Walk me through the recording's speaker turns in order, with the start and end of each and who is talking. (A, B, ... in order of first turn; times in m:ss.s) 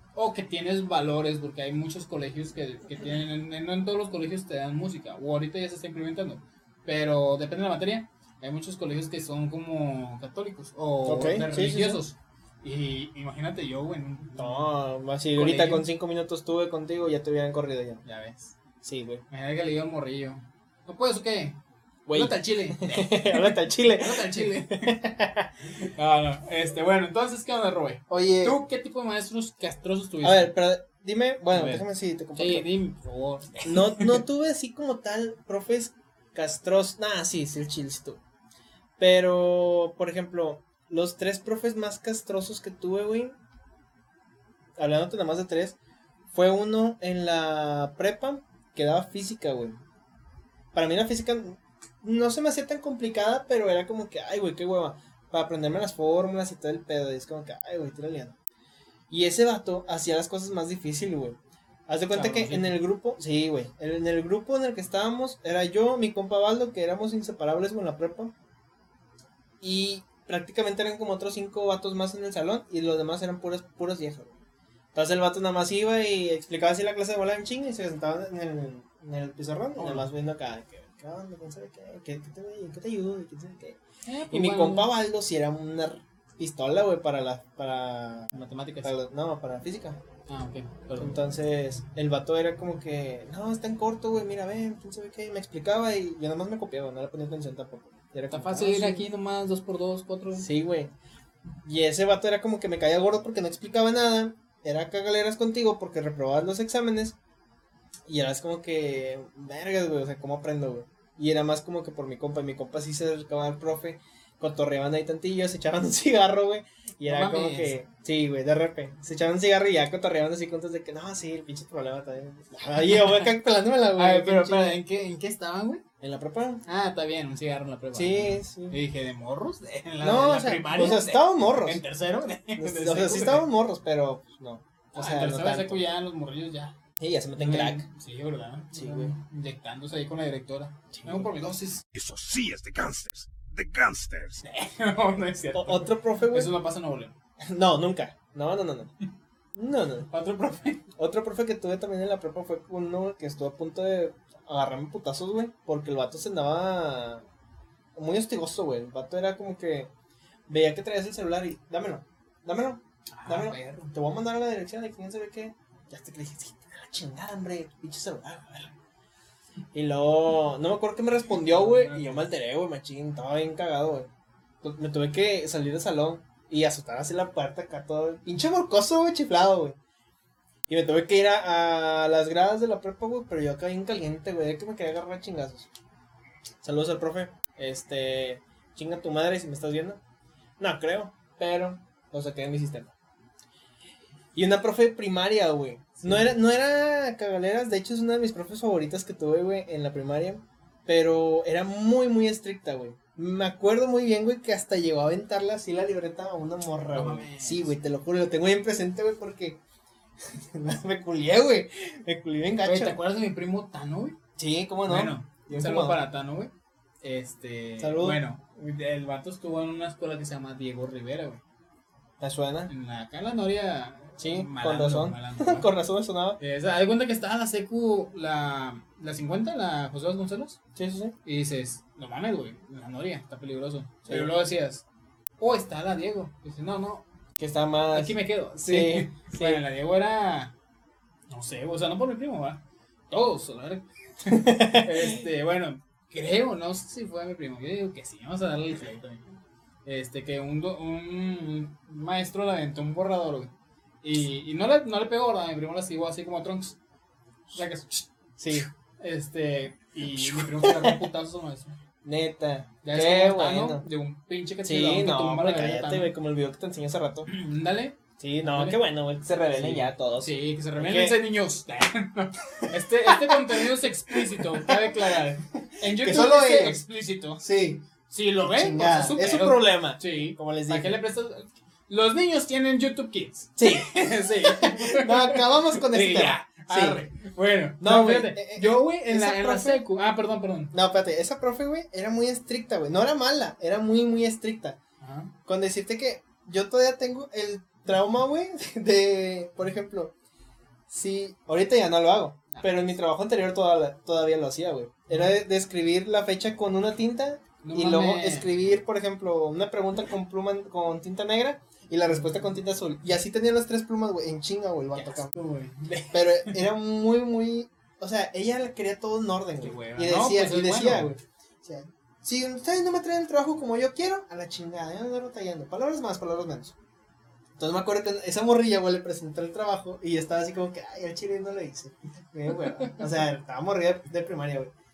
0:00.2-0:14.7 A
0:11.0-0:12.0 B
0:14.4-0:18.0 B
0:15.4-0:15.9 A
0:18.0-0:18.6 A
0:18.8-0:19.2 B
0:19.3-0:21.6 A
0:22.1-0:25.5 B
0:22.1-0:25.0 A
0:25.8-0:30.6 A
0:28.1-0:28.6 B
0:30.2-0:32.7 B
0:31.5-0:31.8 A
0:32.4-0:34.2 A
0:33.6-0:38.2 B
0:39.0-0:43.4 B
0:44.8-0:45.8 B
0:46.3-0:49.8 B
0:50.7-0:58.4 B
0:59.1-1:08.3 B
1:02.1-1:02.8 A
1:09.6-1:14.4 B
1:15.0-1:23.8 B
1:19.8-1:20.1 A
1:24.0-1:24.9 A
1:24.3-1:30.0 B
1:28.3-1:28.9 A
1:30.3-1:31.2 A
1:31.0-1:39.0 B
1:38.3-1:40.5 A
1:40.4-1:40.9 B
1:41.6-1:47.2 B
1:48.1-2:04.8 B
1:57.1-1:57.8 A
2:02.9-2:03.3 A
2:04.0-2:05.8 A
2:06.0-2:06.6 B
2:06.7-2:13.5 A
2:07.9-2:08.8 B
2:10.0-2:11.8 B
2:12.6-2:15.8 B
2:14.9-2:16.8 A
2:17.0-2:17.9 B
2:17.4-2:21.8 A
2:18.7-2:19.1 B
2:20.9-2:21.3 B
2:21.9-2:24.4 C
2:24.4-2:27.1 A
2:25.6-2:26.5 B
2:27.5-2:28.9 B
2:29.6-2:30.1 B
2:30.0-2:30.8 A
2:31.0-2:37.2 B
2:38.0-2:39.9 B
2:40.5-2:48.8 B
2:43.1-2:43.9 A
2:49.7-2:54.1 B
2:51.4-2:52.2 A
2:54.6-2:59.8 B
3:00.7-3:05.7 B
3:06.6-3:10.0 B
3:10.6-3:12.9 B
3:14.3-3:29.6 B
3:16.0-3:16.3 A
3:26.9-3:27.7 A
3:30.3-3:33.0 B
3:32.6-3:34.2 A
3:34.4-3:36.0 B
3:34.9-3:36.5 A
3:37.0-3:41.4 A
3:37.8-3:38.2 B
3:42.2-3:42.7 B
3:42.7-3:45.7 A
3:44.2-3:46.4 B
3:46.4-3:50.6 A
3:50.8-3:51.2 B
3:51.2-3:54.8 A
3:55.4-3:57.0 A
3:57.4-3:59.6 B
3:57.9-4:00.5 A
4:01.3-4:13.5 A
4:04.3-4:05.0 B
4:14.0-4:16.8 A
4:17.5-4:21.8 A
4:18.4-4:18.7 B
4:20.1-4:21.0 B
4:22.0-4:23.8 B
4:22.8-4:26.1 A
4:24.6-4:27.3 B
4:27.3-4:28.0 A
4:28.2-4:31.2 B
4:28.5-4:28.8 A
4:29.5-4:37.5 A
4:32.8-4:36.8 B
4:37.4-4:37.9 B
4:38.1-4:50.7 A
4:38.4-4:41.0 B
4:43.6-4:47.0 B
4:47.8-4:49.8 B
4:50.7-4:54.8 B
4:55.0-4:55.3 A
4:55.5-5:00.1 B
5:00.9-5:15.3 B
5:02.5-5:02.8 A
5:07.6-5:08.5 A
5:15.0-5:16.6 A
5:16.1-5:26.8 B
5:19.6-5:21.1 A
5:27.6-5:34.7 B